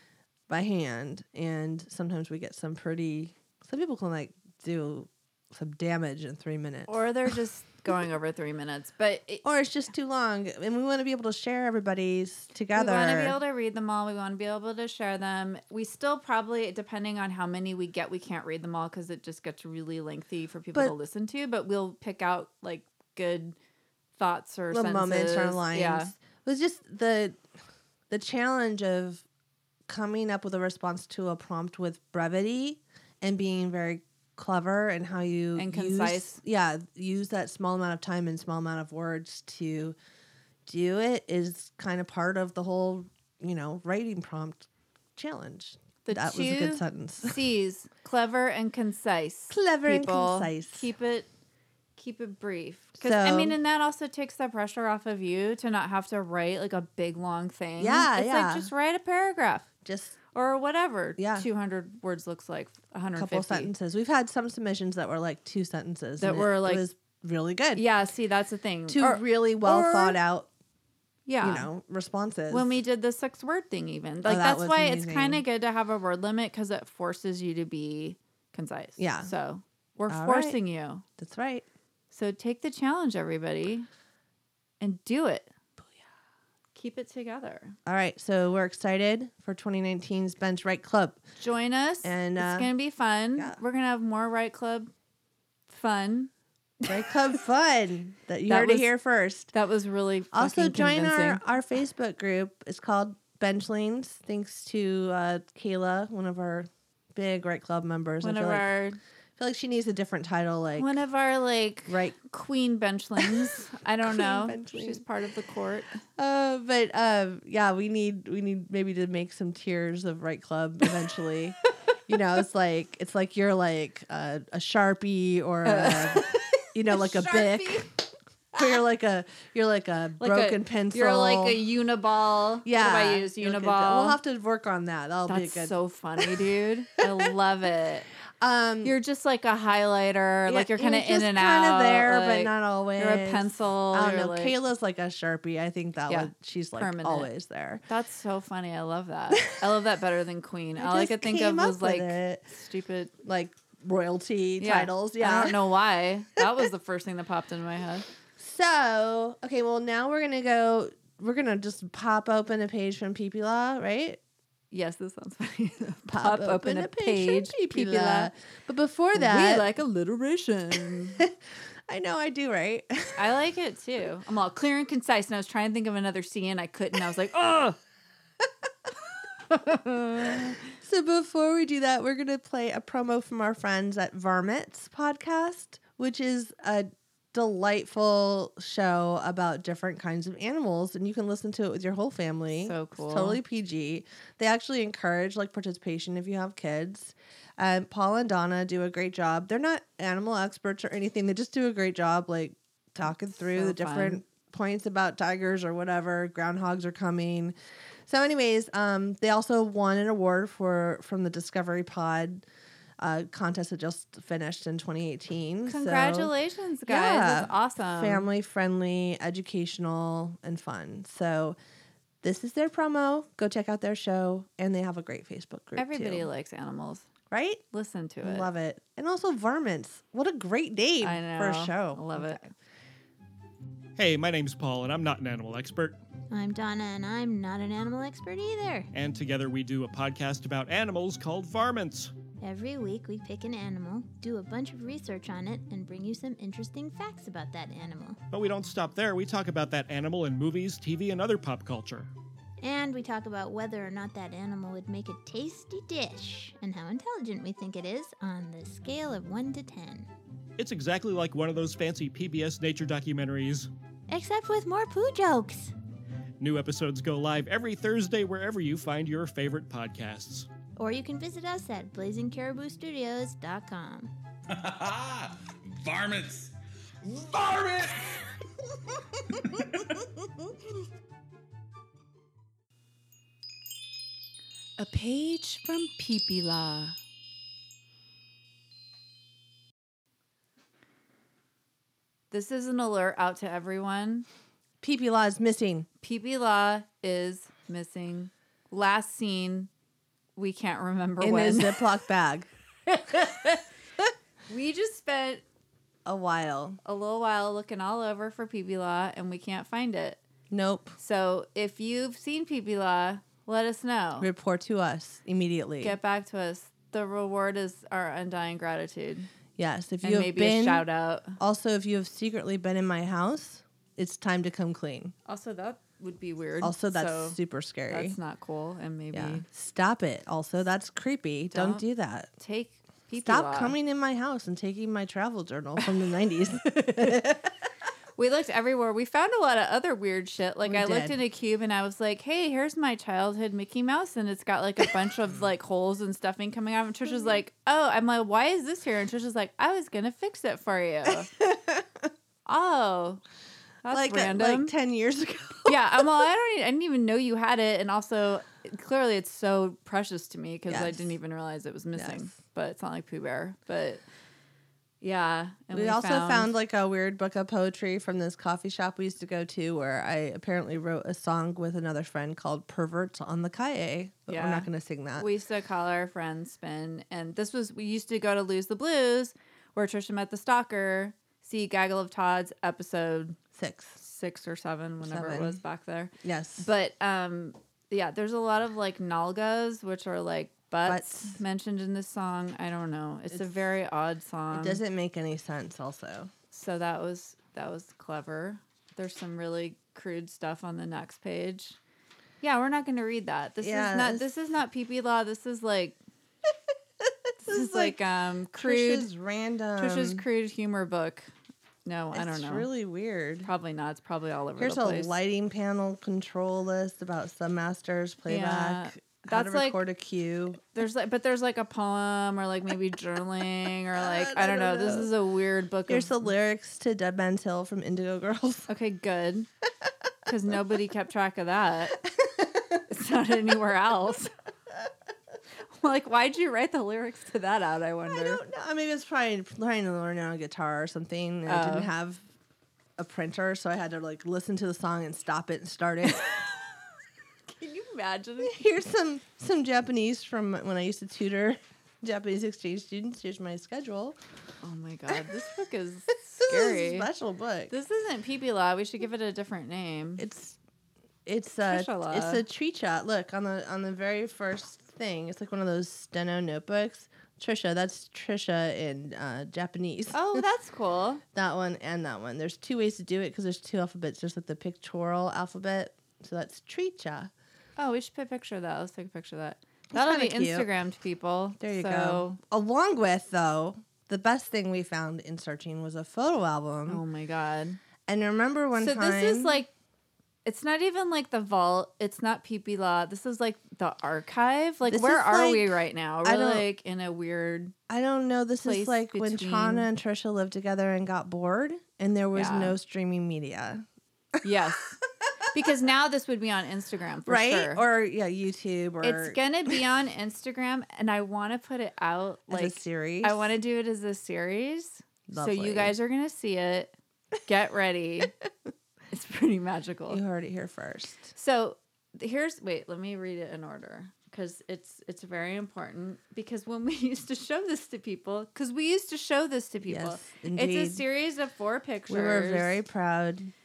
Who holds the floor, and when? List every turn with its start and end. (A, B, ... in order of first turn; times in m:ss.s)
0:00.5-0:07.3 A
0:06.9-0:09.4 B
0:09.4-0:13.4 A
0:12.7-0:23.6 B
0:24.1-0:26.1 B
0:24.7-0:27.4 A
0:28.1-0:29.2 A
0:29.9-0:40.0 A
0:35.6-0:36.4 B
0:40.6-0:47.4 A
0:46.0-0:51.3 B
0:49.5-0:50.9 A
0:52.0-0:59.7 B
0:53.0-0:53.6 A
0:57.8-0:58.7 A
0:59.8-1:00.1 A
1:00.3-1:03.7 B
1:01.2-1:01.5 A
1:03.1-1:07.8 A
1:06.2-1:06.8 B
1:07.7-1:10.2 B
1:08.9-1:10.5 A
1:11.3-1:11.7 B
1:11.4-1:12.7 A
1:12.5-1:21.0 B
1:14.2-1:15.4 A
1:19.0-1:19.3 A
1:20.1-1:20.6 A
1:21.2-1:21.6 A
1:22.1-1:23.9 B
1:24.8-1:25.5 B
1:26.7-1:27.8 B
1:27.8-1:31.2 A
1:31.4-1:34.9 B
1:32.0-1:32.7 A
1:35.7-1:36.3 B
1:36.9-1:39.5 A
1:38.5-1:38.9 B
1:39.5-1:41.4 B
1:40.3-1:48.7 A
1:48.2-1:49.0 B
1:49.4-1:51.0 A
1:50.8-1:56.0 B
1:51.9-1:52.2 A
1:53.2-1:53.5 A
1:54.0-1:55.0 A
1:56.2-2:01.6 A
2:02.1-2:08.0 A
2:05.6-2:07.9 B
2:08.6-2:11.6 A
2:10.2-2:14.2 B
2:12.6-2:16.4 A
2:15.3-2:18.0 B
2:18.4-2:19.0 A
2:18.8-2:24.6 B
2:20.5-2:27.8 A
2:26.1-2:27.3 B
2:27.9-2:33.1 B
2:30.8-2:32.4 A
2:33.2-2:35.6 A
2:34.6-2:38.0 B
2:38.4-2:44.2 A
2:44.7-2:48.3 B
2:46.1-2:49.6 A
2:49.1-2:51.2 B
2:51.9-2:53.2 A
2:53.2-2:57.8 B
2:59.5-3:00.6 B
3:00.2-3:27.5 A
3:12.6-3:13.4 B
3:23.4-3:24.2 B
3:28.0-3:32.4 A
3:33.0-3:36.3 A
3:35.7-3:38.3 B
3:36.8-3:41.6 A
3:42.2-3:46.3 A
3:45.8-3:47.1 B
3:47.3-3:47.6 A
3:47.7-3:48.5 B
3:48.2-3:52.4 A
3:51.0-3:52.5 B
3:54.0-3:56.0 C
3:56.3-3:58.9 D
3:58.9-4:02.1 C
4:02.4-4:08.2 D
4:08.3-4:12.1 C
4:12.6-4:20.1 D
4:20.6-4:23.7 C
4:24.1-4:25.7 D
4:26.4-4:30.5 C
4:30.8-4:34.1 D
4:34.5-4:38.3 E
4:39.3-4:40.0 E
4:44.8-4:47.0 B
4:52.3-4:54.3 B
4:54.8-4:55.9 A
4:56.0-4:59.7 B
5:00.4-5:01.9 B
5:01.2-5:02.5 A
5:02.9-5:03.6 B
5:04.5-5:05.4 B
5:06.0-5:06.8 A
5:06.8-5:10.2 B
5:10.5-5:11.0 A
5:11.0-5:14.3 B
5:14.2-5:16.0 A
5:15.8-5:19.3 B
5:19.6-5:20.8 A
5:20.0-5:21.4 B
5:21.4-5:25.1 A
5:25.3-5:27.4 B
5:26.6-5:28.2 A
5:27.9-5:29.4 B
5:29.1-5:32.3 A
5:31.5-5:31.8 B
5:32.4-5:33.8 B
5:33.2-5:37.5 A
5:38.2-5:51.3 B
5:40.6-5:41.2 A
5:47.1-5:47.4 A
5:51.1-5:52.1 A
5:52.4-5:53.2 B
5:53.8-5:54.7 B
5:53.9-5:56.1 A
5:55.7-6:04.0 B
6:00.7-6:01.1 A
6:01.9-6:02.3 A
6:05.0-6:06.5 B
6:05.7-6:15.3 A
6:14.3-6:23.4 B
6:23.5-6:24.0 A
6:24.0-6:34.8 B
6:25.0-6:25.6 A
6:26.2-6:26.7 A
6:30.8-6:31.4 A
6:34.5-6:36.3 A
6:36.5-6:41.8 B
6:42.4-6:46.0 B
6:43.6-6:44.2 A
6:47.0-6:48.0 A
6:47.4-6:49.1 B
6:48.5-6:50.2 A
6:49.8-6:51.3 B
6:51.8-6:52.7 B
6:52.1-6:53.5 A
6:53.4-6:55.1 B
6:54.6-7:00.6 A
6:58.3-6:59.8 B
7:00.6-7:06.3 B
7:04.0-7:05.1 A
7:05.9-7:08.7 A
7:08.7-7:09.5 B
7:10.2-7:12.0 B
7:12.1-7:12.8 A
7:12.9-7:14.3 B
7:15.8-7:18.4 B
7:18.1-7:22.2 A
7:21.4-7:21.9 B
7:23.0-7:26.2 A
7:26.2-7:26.5 B
7:27.5-7:28.6 B
7:28.4-7:34.2 A
7:34.6-7:37.1 B
7:36.4-7:37.7 A
7:37.7-7:40.2 B
7:40.2-7:40.6 A
7:41.2-7:50.4 A
7:41.7-7:42.4 B
7:50.1-7:51.2 B
7:51.3-7:57.3 A
7:57.8-8:02.4 B
7:59.9-8:00.7 A
8:01.6-8:07.0 A
8:06.9-8:07.8 B
8:08.0-8:09.6 A
8:08.8-8:09.7 B
8:10.4-8:17.7 B
8:14.9-8:16.7 A
8:17.9-8:23.8 A
8:18.6-8:19.9 B
8:22.3-8:22.7 B
8:24.4-8:25.0 B
8:25.5-8:27.8 B
8:27.2-8:29.8 A
8:29.0-8:36.9 B
8:32.5-8:33.5 A
8:35.3-8:36.0 A
8:37.4-8:38.3 B
8:39.1-8:40.2 B
8:40.1-8:41.3 A
8:41.3-8:52.8 B
8:49.8-8:51.0 A
8:52.1-8:53.5 A